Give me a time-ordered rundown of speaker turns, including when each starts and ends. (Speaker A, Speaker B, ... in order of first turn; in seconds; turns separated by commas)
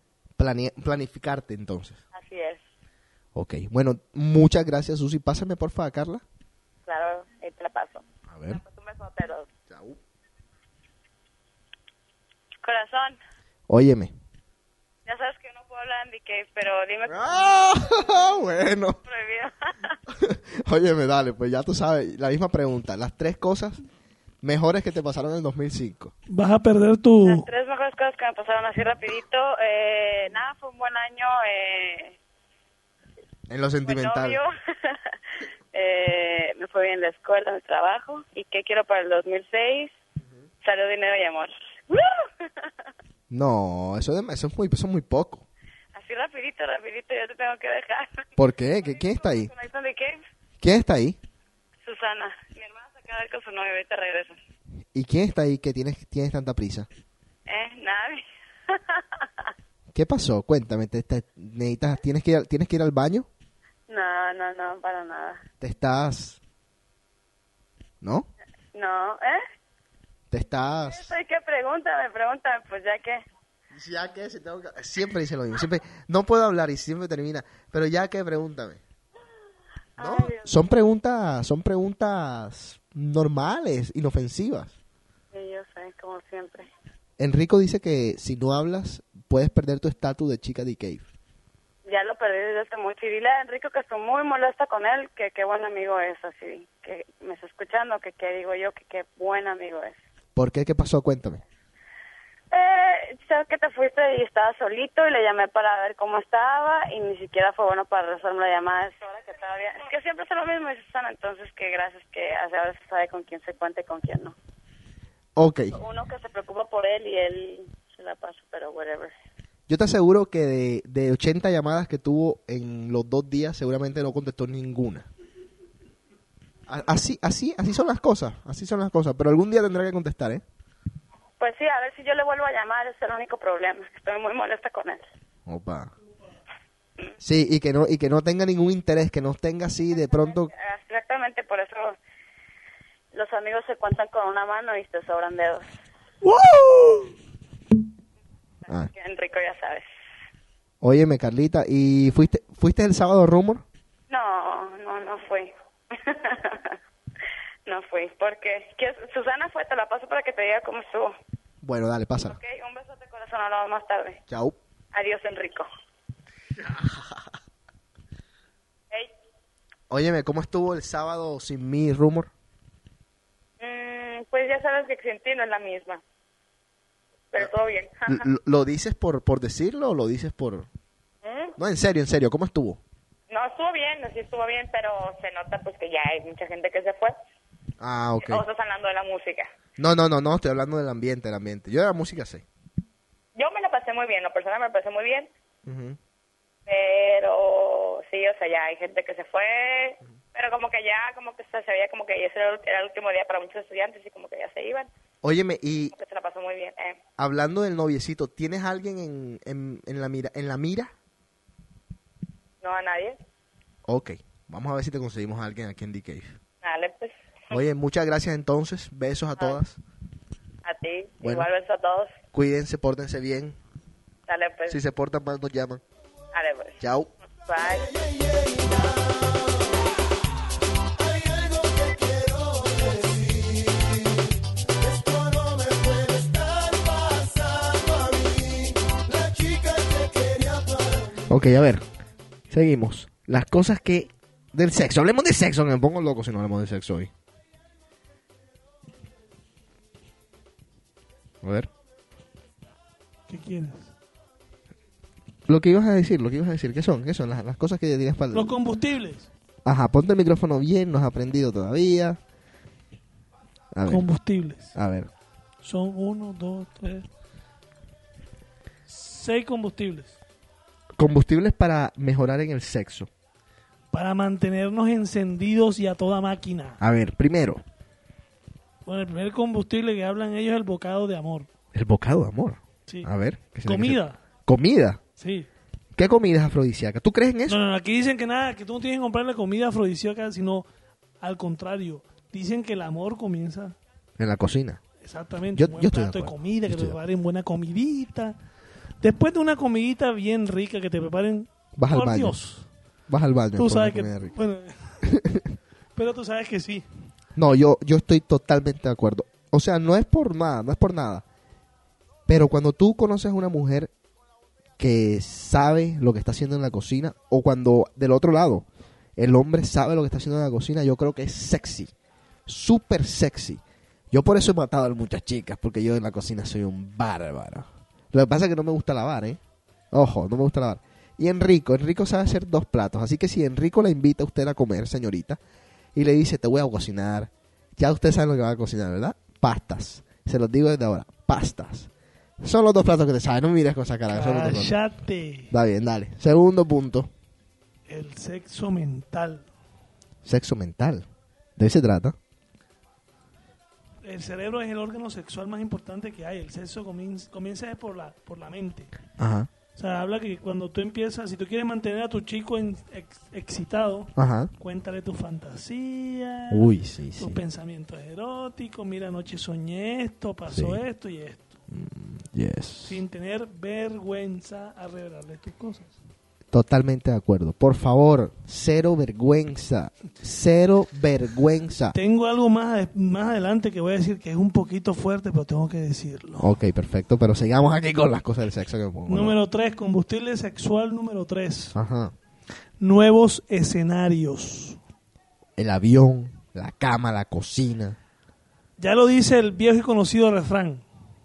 Speaker A: 0.4-2.0, Speaker B: 2.1-2.6, Speaker A: 3.4-6.2, Speaker B: 6.9-9.5, Speaker A: 8.3-8.6, Speaker A: 9.7-10.0, Speaker B: 12.6-13.2, Speaker A: 13.7-14.1, Speaker B: 15.1-17.2, Speaker A: 17.1-19.0, Speaker B: 19.0-19.5, Speaker A: 20.1-23.8, Speaker A: 24.4-26.1, Speaker C: 26.3-27.4, Speaker B: 27.3-32.2, Speaker A: 33.5-34.4, Speaker B: 33.8-34.5, Speaker B: 35.7-39.9, Speaker B: 40.6-42.1, Speaker A: 43.3-45.5, Speaker B: 45.9-48.3, Speaker A: 48.4-49.5, Speaker B: 48.9-50.2, Speaker A: 50.6-51.2, Speaker B: 51.8-54.4, Speaker A: 54.9-56.9, Speaker B: 57.5-59.0, Speaker A: 59.9-63.3, Speaker B: 63.9-65.4, Speaker A: 65.6-66.4, Speaker A: 68.0-68.3, Speaker B: 68.7-69.4, Speaker A: 70.3-71.1, Speaker B: 70.7-73.2, Speaker A: 73.7-78.8, Speaker B: 80.0-80.7, Speaker A: 80.0-84.7, Speaker B: 85.3-86.7, Speaker A: 87.2-91.0, Speaker B: 91.8-100.0, Speaker A: 100.4-101.4, Speaker B: 102.5-114.3, Speaker A: 115.4-115.8, Speaker B: 115.7-119.1, Speaker A: 119.7-125.1, Speaker A: 126.7-130.4, Speaker B: 131.4-135.0, Speaker A: 135.5-135.9, Speaker A: 137.2-140.5, Speaker B: 139.9-142.0, Speaker B: 143.1-145.7, Speaker C: 146.2-147.1, Speaker B: 148.7-149.8, Speaker A: 150.8-153.7, Speaker B: 154.1-156.8, Speaker B: 157.7-161.1, Speaker A: 161.6-162.4, Speaker B: 162.2-164.2, Speaker A: 164.3-164.6, Speaker B: 164.9-165.7, Speaker A: 166.6-167.2, Speaker A: 169.9-172.3, Speaker B: 173.6-176.0, Speaker B: 177.3-178.2, Speaker A: 178.1-180.7, Speaker B: 181.2-181.5, Speaker A: 181.6-182.8, Speaker B: 183.3-187.2, Speaker A: 187.8-188.4, Speaker B: 188.2-189.5, Speaker A: 189.8-192.4, Speaker B: 193.3-195.3, Speaker A: 195.7-196.0, Speaker B: 196.7-204.9, Speaker A: 205.2-205.9, Speaker B: 205.9-207.0, Speaker A: 207.2-210.9, Speaker B: 212.6-213.2, Speaker A: 213.9-216.4, Speaker B: 216.6-217.6, Speaker A: 217.5-219.8, Speaker B: 220.7-222.1, Speaker A: 221.2-221.5, Speaker A: 222.3-223.6, Speaker B: 224.3-224.8, Speaker A: 224.7-225.8, Speaker B: 226.3-226.8, Speaker A: 226.8-227.1, Speaker B: 227.5-227.9, Speaker A: 241.3-241.8, Speaker A: 242.5-247.1, Speaker A: 251.4-251.7, Speaker C: 253.3-253.9, Speaker A: 255.5-258.6, Speaker C: 258.3-259.3, Speaker A: 259.6-262.2, Speaker A: 263.7-264.1, Speaker C: 263.9-264.8, Speaker A: 264.7-265.1, Speaker C: 265.6-267.1, Speaker C: 268.9-270.2, Speaker A: 271.0-273.1, Speaker C: 273.9-276.8, Speaker A: 276.8-277.6, Speaker C: 278.9-281.5, Speaker A: 281.7-285.0, Speaker C: 283.6-284.2, Speaker C: 285.2-285.5, Speaker A: 286.0-287.6, Speaker C: 287.5-290.6, Speaker C: 291.2-293.8, Speaker A: 294.2-294.8, Speaker C: 295.0-298.4, Speaker A: 295.6-297.0, Speaker C: 299.0-302.7, Speaker A: 301.8-302.4, Speaker A: 303.1-304.3, Speaker C: 303.6-305.0, Speaker A: 305.1-305.5, Speaker C: 306.0-306.9, Speaker A: 307.4-311.2, Speaker A: 312.3-313.9, Speaker A: 314.8-318.7, Speaker A: 319.2-321.9, Speaker A: 322.5-329.4, Speaker A: 329.9-335.4, Speaker A: 335.9-341.9, Speaker A: 342.4-344.8, Speaker C: 344.1-345.5, Speaker A: 345.5-347.1, Speaker C: 347.9-349.5, Speaker A: 350.2-351.1, Speaker A: 351.6-352.2, Speaker C: 354.0-358.9, Speaker A: 359.2-359.5, Speaker C: 359.8-371.6, Speaker A: 364.2-364.5, Speaker A: 366.5-367.4, Speaker A: 370.5-370.8, Speaker A: 371.7-373.0, Speaker C: 372.8-375.9, Speaker A: 376.5-382.0, Speaker C: 381.9-386.5, Speaker A: 386.4-389.4, Speaker C: 389.1-391.8, Speaker A: 391.7-392.1, Speaker C: 392.8-394.8, Speaker A: 395.6-398.0, Speaker C: 398.8-400.8